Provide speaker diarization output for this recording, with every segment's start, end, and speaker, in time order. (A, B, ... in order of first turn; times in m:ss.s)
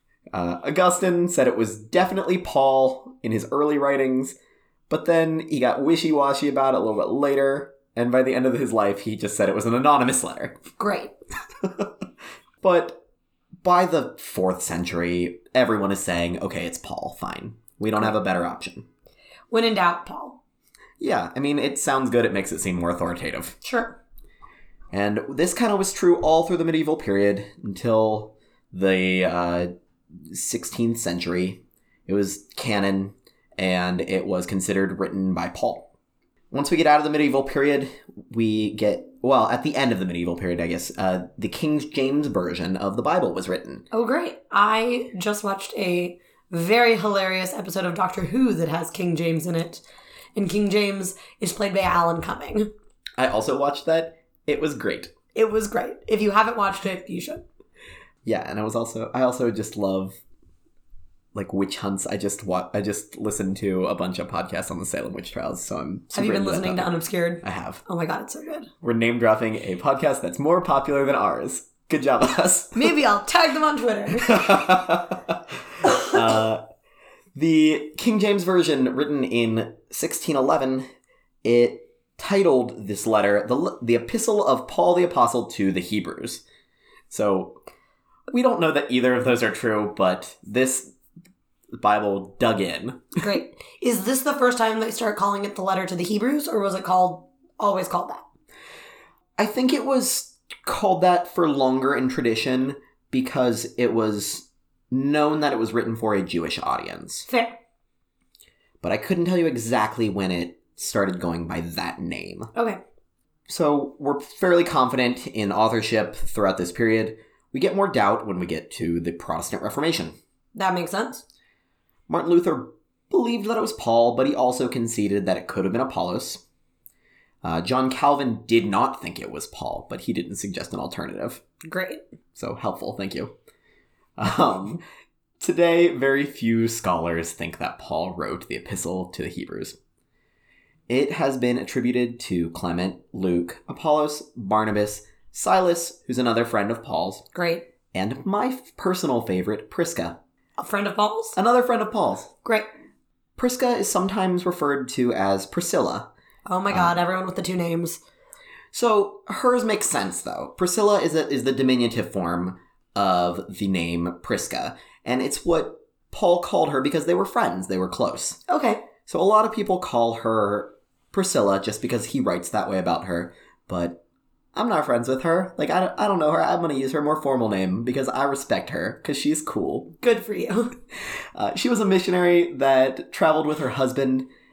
0:00.3-0:04.4 A
0:04.9-0:10.6 A
0:10.8-0:11.1 B
0:11.6-0:11.9 A
0:12.6-0:13.0 A
0:13.6-0:18.8 A
0:19.5-0:20.4 B
0:21.0-0:23.6 A
0:23.6-0:24.0 B
0:24.9-0:35.9 A
0:36.5-0:43.8 A
0:43.9-0:49.8 B
0:50.4-0:52.7 B
0:53.2-0:55.1 A
0:55.3-0:57.4 B
0:58.2-1:00.2 A
1:01.3-1:06.9 A
1:06.1-1:08.7 B
1:07.4-1:07.8 A
1:08.8-1:13.0 A
1:12.7-1:14.4 B
1:14.2-1:16.6 A
1:17.3-1:20.8 A
1:21.4-1:26.4 A
1:27.1-1:27.6 A
1:28.3-1:30.9 A
1:31.8-1:33.2 A
1:33.2-1:38.2 B
1:39.4-1:47.3 A
1:47.3-1:47.6 B
1:48.8-1:52.5 A
1:52.5-1:52.8 B
1:53.5-2:00.2 A
2:00.5-2:01.2 B
2:02.1-2:06.4 A
2:07.4-2:11.4 A
2:11.6-2:12.0 B
2:12.4-2:13.3 A
2:14.2-2:14.8 A
2:15.4-2:19.8 A
2:20.9-2:27.3 A
2:27.3-2:27.7 B
2:27.9-2:30.2 A
2:30.6-2:31.4 B
2:31.4-2:32.3 A
2:33.4-2:36.1 A
2:36.5-2:38.0 B
2:36.7-2:37.0 A
2:38.7-2:48.4 A
2:48.5-2:48.8 B
2:49.0-2:54.0 A
2:54.5-2:59.9 A
3:00.0-3:00.7 B
3:01.3-3:04.3 A